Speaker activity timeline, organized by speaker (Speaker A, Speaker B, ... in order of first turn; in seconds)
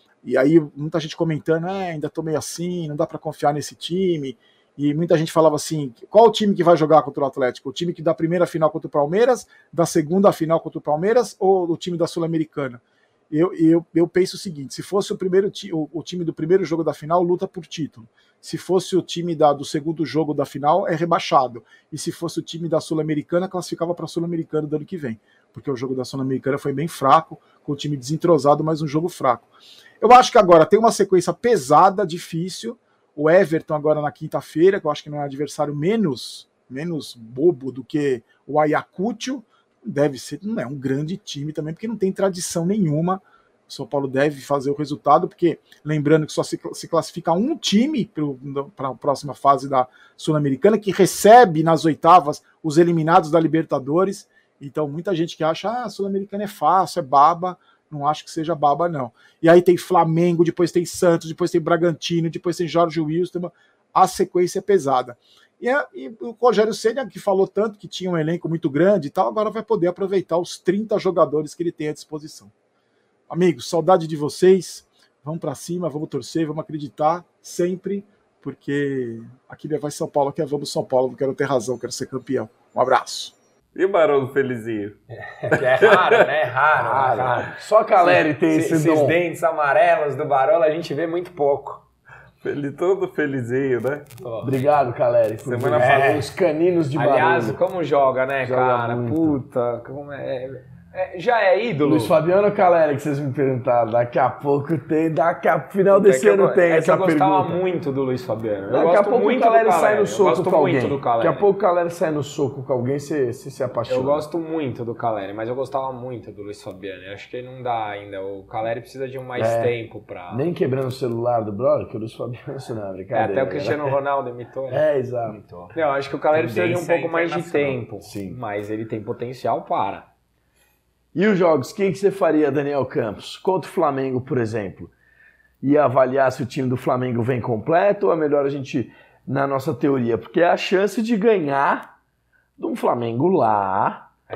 Speaker A: 0.2-29.5, 30.0-72.5, 73.3-83.3
Speaker B: 83.8-85.0, 85.5-86.2, 92.4-94.2, 95.4-96.1, 125.4-125.8, 126.3-127.8
Speaker C: 85.2-91.8, 94.2-94.6, 95.8-96.3, 97.0-102.2, 105.9-111.5, 113.9-120.5, 123.1-124.9, 125.7-130.1
Speaker D: 86.8-89.2, 94.4-97.6, 98.4-99.4, 101.8-107.6, 108.7-114.2, 119.4-119.8, 120.3-124.0, 124.7-125.4, 128.1-128.4, 131.1-134.9, 135.6-141.9, 142.6-144.1